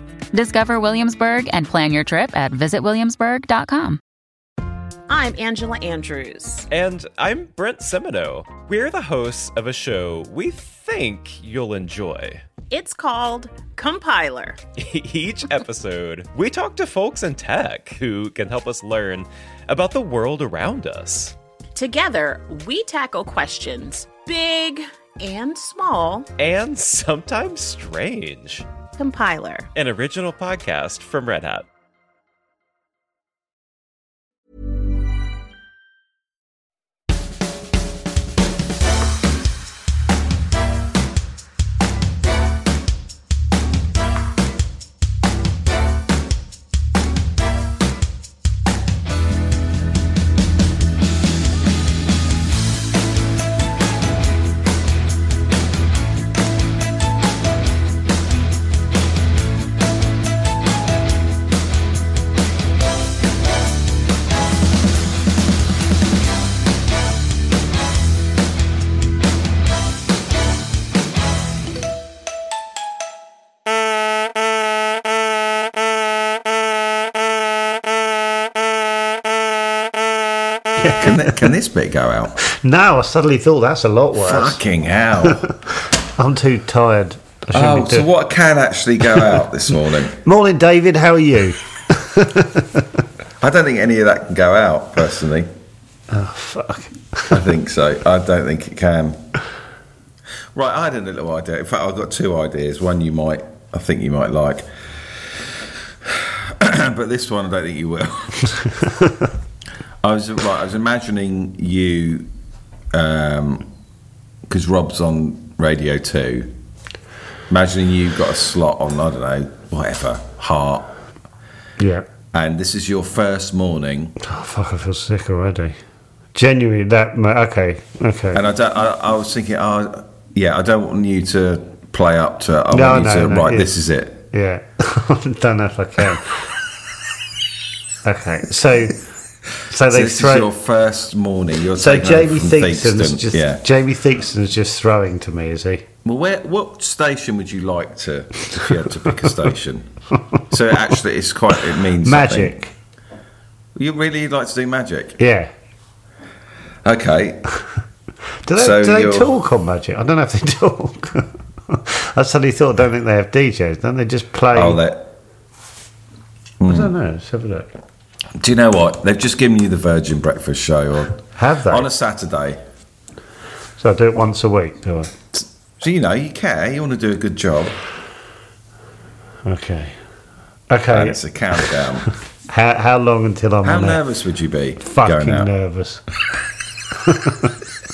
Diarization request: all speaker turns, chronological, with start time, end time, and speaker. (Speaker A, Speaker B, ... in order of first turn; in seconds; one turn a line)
Speaker A: 0.3-4.0
Speaker B: 5.1-6.7
Speaker C: 6.7-12.4
Speaker B: 12.7-14.6
Speaker C: 14.8-21.4
Speaker B: 21.8-26.3
Speaker C: 26.4-28.7
Speaker B: 29.0-29.7
Speaker C: 29.8-31.7
Speaker D: 80.8-81.4
Speaker E: 81.0-82.4
Speaker D: 82.5-84.6
Speaker E: 84.2-85.4
Speaker D: 86.2-88.1
Speaker E: 87.5-90.2
Speaker D: 90.2-93.0
Speaker E: 93.4-95.5
Speaker D: 96.1-97.4
Speaker E: 97.3-99.2
Speaker E: 100.5-104.7
Speaker E: 106.0-108.5
Speaker D: 109.0-109.2
Speaker E: 110.0-112.3
Speaker E: 112.9-113.7
Speaker E: 114.5-116.5
Speaker E: 117.5-120.9
Speaker D: 121.8-122.1
Speaker E: 122.3-124.2
Speaker D: 124.2-125.8
Speaker D: 126.3-128.4
Speaker E: 128.3-134.2
Speaker D: 132.7-133.7
Speaker D: 134.3-136.4
Speaker D: 138.1-139.0
Speaker D: 139.7-140.5
Speaker E: 139.9-143.7
Speaker D: 141.8-145.8
Speaker E: 146.1-149.9
Speaker E: 150.5-152.5
Speaker D: 152.0-152.7
Speaker E: 153.8-155.2
Speaker D: 155.2-155.5
Speaker E: 156.8-157.4
Speaker D: 158.5-164.8
Speaker E: 158.6-159.3
Speaker E: 164.5-165.1
Speaker E: 166.6-166.9
Speaker D: 166.7-167.7
Speaker E: 168.4-172.6
Speaker D: 171.4-171.9
Speaker D: 173.8-175.1
Speaker E: 175.8-177.8
Speaker D: 179.4-180.0
Speaker D: 180.7-181.2
Speaker E: 180.9-182.1
Speaker D: 182.5-184.0
Speaker E: 183.6-185.5
Speaker D: 184.8-186.0
Speaker D: 187.0-187.6